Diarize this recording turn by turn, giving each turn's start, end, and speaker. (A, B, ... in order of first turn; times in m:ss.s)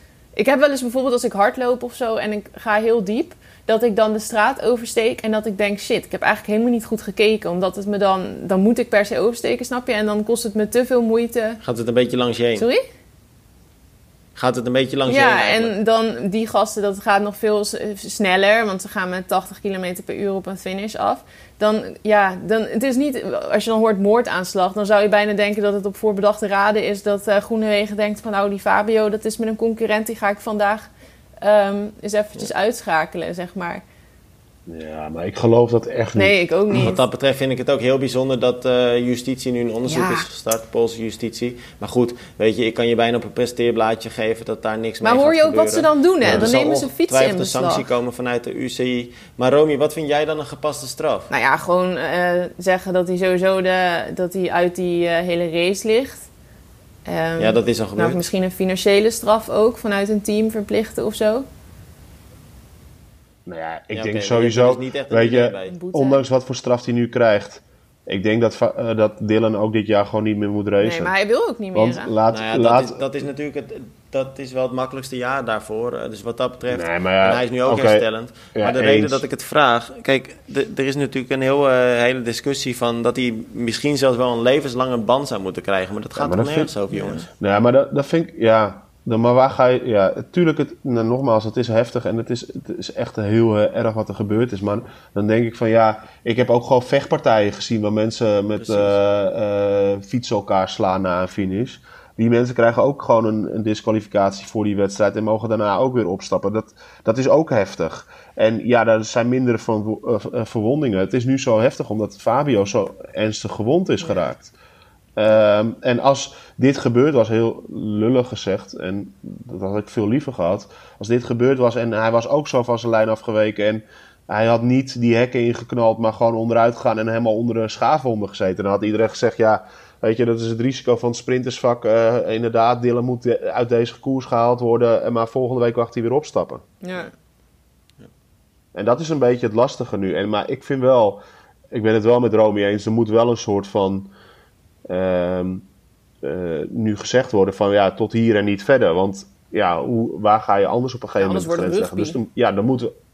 0:00.4-0:11.6 A
0:11.6-0:12.7 B
0:12.6-0:12.8 A
0:14.4-0:15.7 B
0:15.1-0:30.9 A
0:31.4-0:33.8 A
0:34.7-0:36.4 C
0:36.2-0:37.0 A
0:36.7-0:51.3 B
0:39.9-0:40.3 A
0:45.0-0:47.8 A
0:46.2-0:46.5 C
0:51.3-0:56.3 A
0:57.1-1:01.5 A
0:57.4-0:58.3 B
1:03.5-1:11.1 C
1:03.9-1:05.8 B
1:05.7-1:06.2 A
1:10.8-1:12.1 A
1:11.7-1:13.2 C
1:12.3-1:27.2 B
1:16.7-1:19.2 C
1:26.2-1:26.7 C
1:26.9-1:27.3 A
1:27.4-1:54.5 C
1:38.6-1:39.0 B
1:55.2-2:16.6 C
2:16.8-2:17.1 A
2:18.7-2:24.1 C
2:24.9-2:25.7 C
2:26.2-2:33.0 C
2:31.2-2:32.2 A